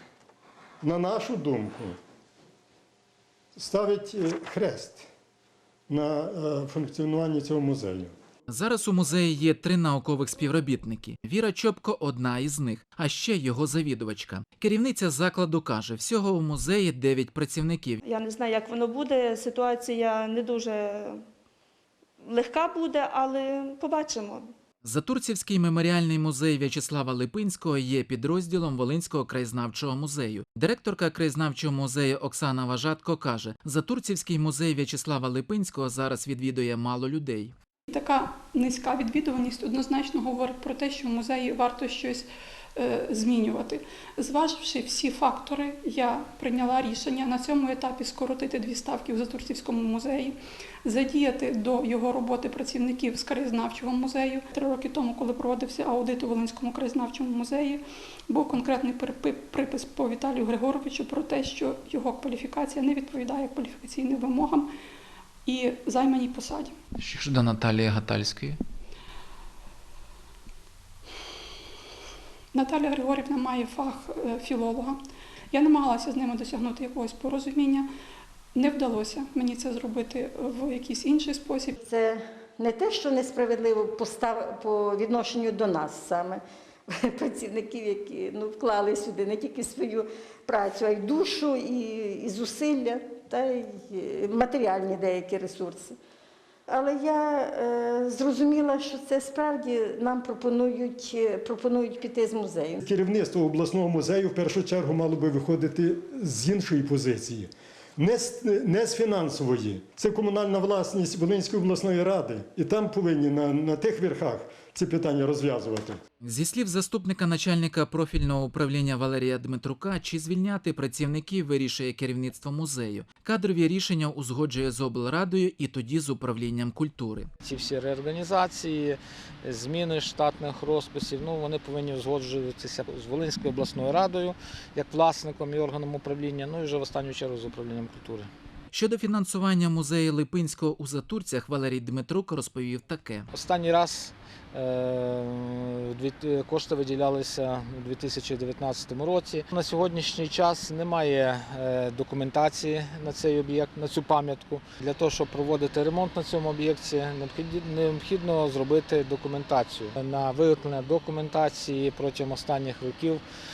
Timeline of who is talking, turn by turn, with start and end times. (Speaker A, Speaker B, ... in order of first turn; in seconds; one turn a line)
Speaker A: 0.8-2.0
Speaker A: 3.6-5.1
Speaker A: 5.9-8.1
Speaker B: 8.5-18.0
Speaker C: 18.0-21.2
Speaker C: 22.2-24.5
Speaker B: 24.8-37.5
Speaker D: 37.9-64.7
Speaker D: 65.5-66.8
Speaker B: 67.0-68.6
Speaker D: 72.5-75.0
Speaker D: 75.5-77.9
Speaker D: 78.5-81.8
Speaker E: 81.8-96.0
Speaker E: 96.7-102.8
Speaker A: 102.8-116.0
Speaker B: 116.2-127.3
Speaker F: 127.4-138.3
Speaker B: 138.7-143.3
Speaker F: 143.3-163.2